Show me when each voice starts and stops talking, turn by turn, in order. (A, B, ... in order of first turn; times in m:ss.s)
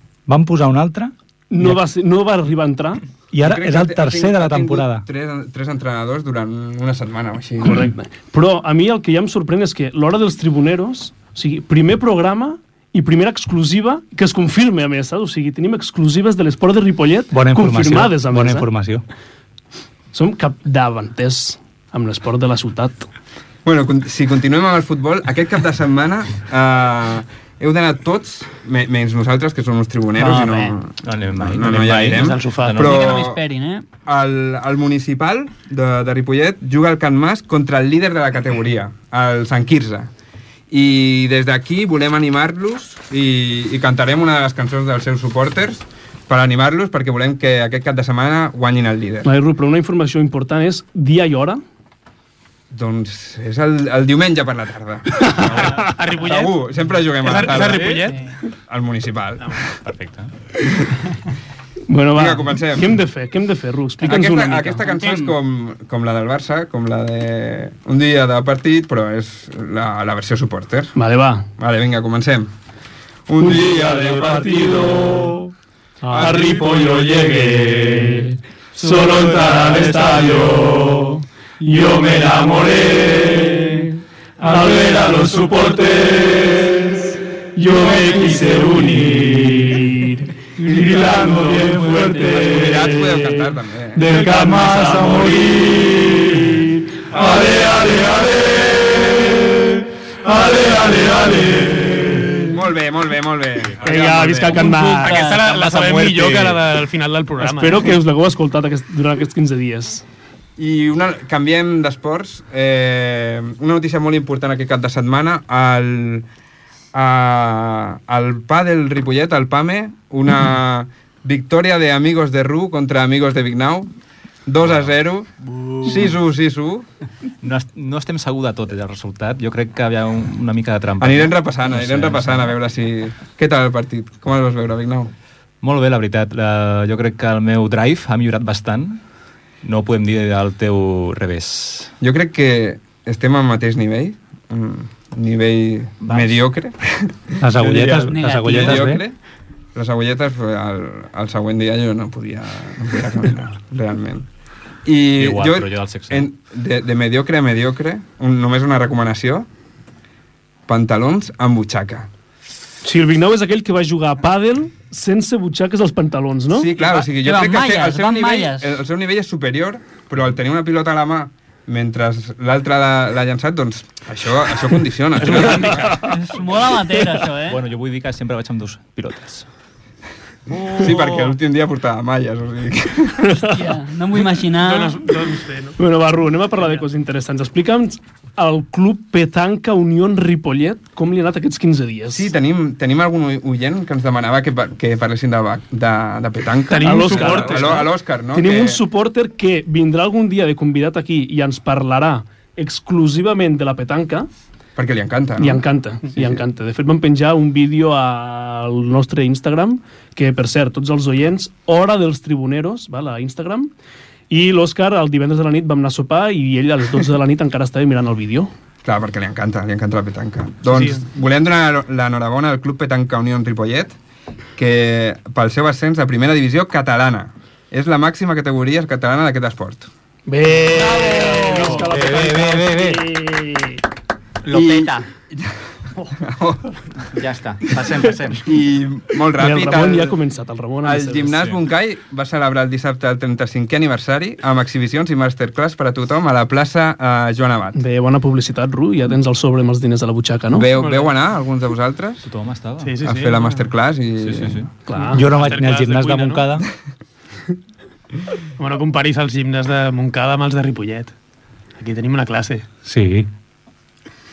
0:00.3-0:01.8 A
0:01.5-0:03.0 B
0:03.3-0:05.0 A
0:03.4-0:07.9 C
0:07.6-0:18.7 B
0:17.3-0:19.0 A
0:20.1-0:23.1 B
0:23.6-0:33.4 C
0:30.2-0:30.8 D
0:31.0-0:33.1 E
0:31.9-0:32.8 F
0:32.8-0:33.8 D
0:34.0-0:40.1 C
0:40.7-0:49.3 C
0:49.2-0:51.6 B
0:52.7-0:58.0 C
0:55.5-0:55.8 E
0:55.6-0:56.6 F
0:57.2-0:58.2 F
0:57.7-0:58.0 E
0:58.7-0:59.6 C
0:59.8-1:00.3 E
1:01.9-1:04.8 B
1:02.1-1:02.9 C
1:04.0-1:10.9 C
1:04.8-1:05.3 D
1:11.0-1:11.4 B
1:11.6-1:12.5 C
1:13.3-1:15.3 C
1:13.4-1:15.5 B
1:16.0-1:39.5 B
1:16.1-1:17.2 C
1:32.4-1:34.1 C
1:40.2-1:42.4 B
1:42.4-1:44.6 C
1:43.8-1:45.4 B
1:44.4-1:47.9 F
1:44.7-1:46.3 D
1:47.4-1:50.0 B
1:50.6-1:56.2 C
1:56.9-2:03.9 C
2:04.4-2:05.3 C
2:05.8-2:06.1 E
2:05.8-2:06.9 C
2:07.4-2:12.6 E
2:11.0-2:15.1 C
2:15.6-2:19.0 E
2:19.6-2:21.9 E
2:22.0-2:29.2 C
2:26.1-2:26.3 G
2:27.4-2:29.0 A
2:28.1-2:28.9 D
2:29.7-2:34.2 C
2:34.8-2:39.5 C
2:35.2-2:36.3 E
2:40.7-2:42.1 C
2:42.8-2:46.7 B
2:46.5-2:56.0 C
2:46.8-2:48.7 D
2:55.2-2:56.0 F
2:55.7-2:56.2 B
2:56.1-2:57.6 D
2:57.5-2:59.5 E
3:00.5-3:01.0 E
3:00.7-3:03.3 C
3:03.5-3:05.1 D
3:04.2-3:05.8 F
3:05.8-3:12.3 B
3:12.1-3:18.8 C
3:16.7-3:17.9 F
3:16.8-3:24.3 B
3:24.8-3:25.6 C
3:25.4-3:33.7 B
3:34.3-3:38.5 B
3:38.8-3:44.0 C
3:44.6-3:49.9 C
3:50.2-3:53.8 B
3:50.7-3:51.9 D
3:51.8-3:53.0 G
3:54.4-3:55.0 G
3:54.5-3:55.5 C
3:56.2-3:56.6 C
3:57.0-3:58.4 G
3:58.4-4:00.1 C
3:59.4-4:01.6 B
4:00.8-4:07.8 C
4:07.7-4:10.7 B
4:10.5-4:12.2 C
4:10.7-4:11.1 F
4:12.2-4:12.9 E
4:12.8-4:13.4 F
4:13.0-4:14.6 C
4:14.2-4:14.7 E
4:14.9-4:15.2 B
4:14.9-4:16.5 F
4:15.1-4:16.7 A
4:18.6-4:21.1 F
4:21.8-4:22.6 F
4:22.8-4:23.3 A